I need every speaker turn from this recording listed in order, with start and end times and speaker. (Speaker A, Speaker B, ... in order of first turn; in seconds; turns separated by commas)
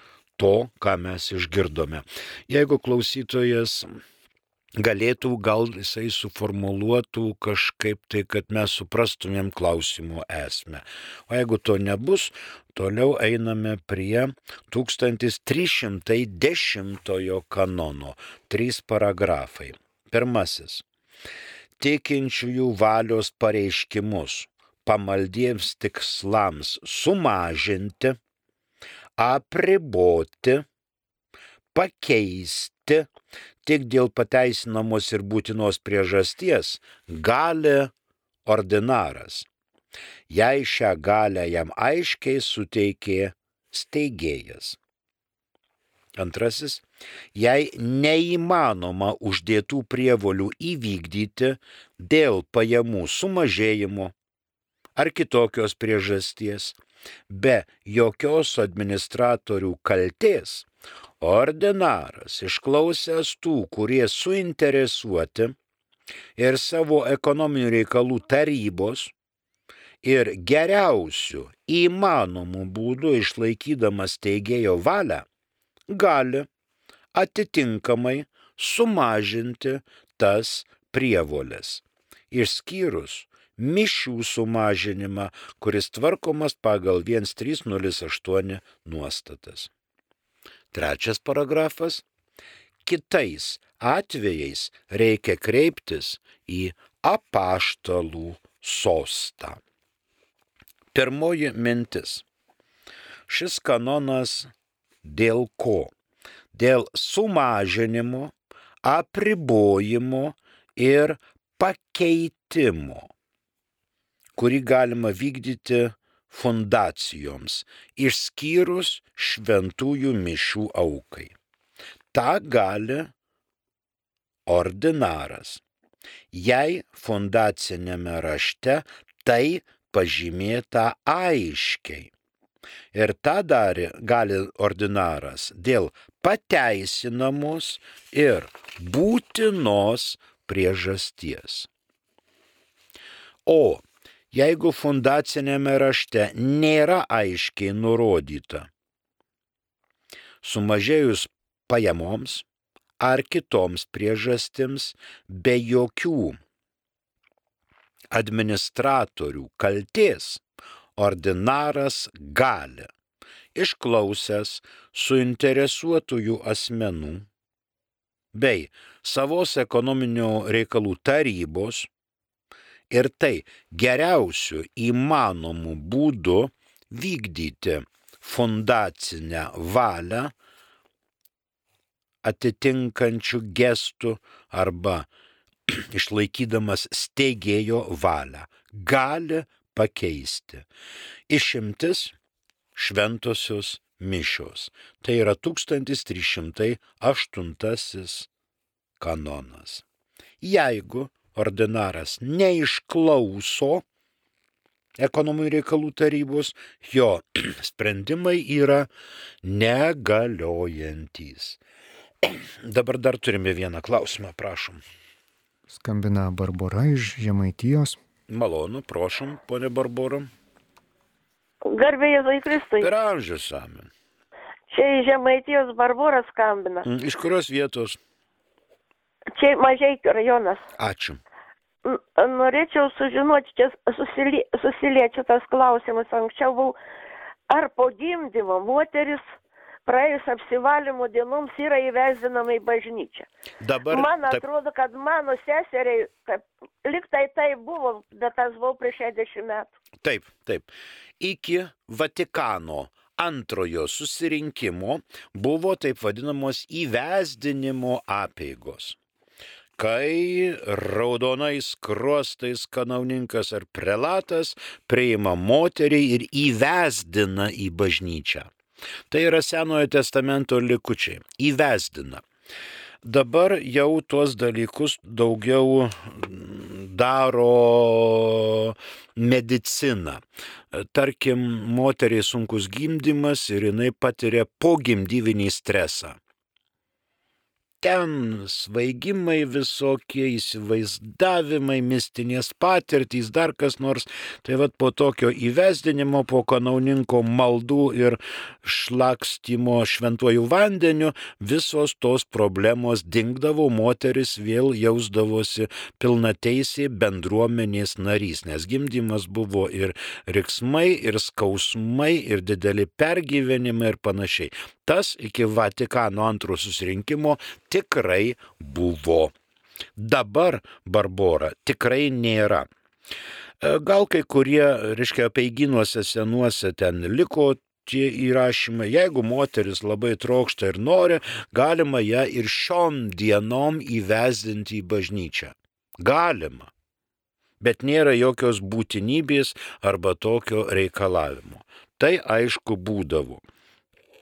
Speaker A: 0.4-4.0, Speaker A: 4.8-20.9, Speaker A: 21.8-28.2, Speaker A: 29.2-30.6, Speaker A: 31.7-33.1, Speaker A: 33.6-37.9, Speaker A: 38.5-39.5, Speaker A: 40.3-44.8, Speaker A: 46.2-54.1, Speaker A: 55.0-56.8, Speaker A: 57.3-60.7, Speaker A: 61.2-65.6, Speaker A: 66.4-69.1, Speaker A: 70.0-75.3, Speaker A: 75.9-76.5, Speaker A: 77.1-89.7, Speaker A: 90.7-92.0, Speaker A: 92.8-99.6, Speaker A: 100.9-102.2, Speaker A: 103.3-104.5, Speaker A: 105.0-105.9, Speaker A: 106.5-113.1, Speaker A: 114.4-121.3, Speaker A: 122.1-123.1, Speaker A: 124.5-125.6, Speaker A: 126.3-132.1, Speaker A: 132.9-141.7, Speaker A: 143.5-148.7, Speaker A: 150.4-152.4, Speaker A: 153.0-156.4, Speaker A: 158.1-160.4, Speaker A: 161.0-162.9, Speaker A: 163.6-167.3, Speaker A: 168.3-171.9, Speaker A: 172.9-180.3, Speaker A: 182.2-185.1, Speaker A: 185.7-190.7, Speaker A: 191.3-192.1, Speaker A: 192.8-198.3, Speaker A: 199.0-199.8, Speaker A: 200.4-203.8, Speaker A: 205.0-208.9, Speaker A: 209.4-211.6, Speaker A: 212.2-214.8, Speaker B: 215.7-218.0, Speaker A: 218.3-220.3, Speaker C: 221.7-222.9, Speaker A: 222.8-223.9, Speaker C: 224.7-226.9, Speaker A: 226.8-228.0, Speaker C: 229.3-230.6, Speaker A: 230.8-231.2, Speaker C: 231.8-236.8, Speaker C: 237.5-239.2, Speaker C: 239.9-243.3, Speaker A: 243.6-244.4, Speaker C: 243.9-249.8, Speaker A: 250.0-259.0, Speaker A: 259.8-268.5, Speaker A: 269.1-272.2, Speaker A: 273.0-286.2, Speaker A: 287.8-319.3, Speaker A: 320.0-322.7, Speaker A: 323.6-336.7, Speaker A: 337.6-343.4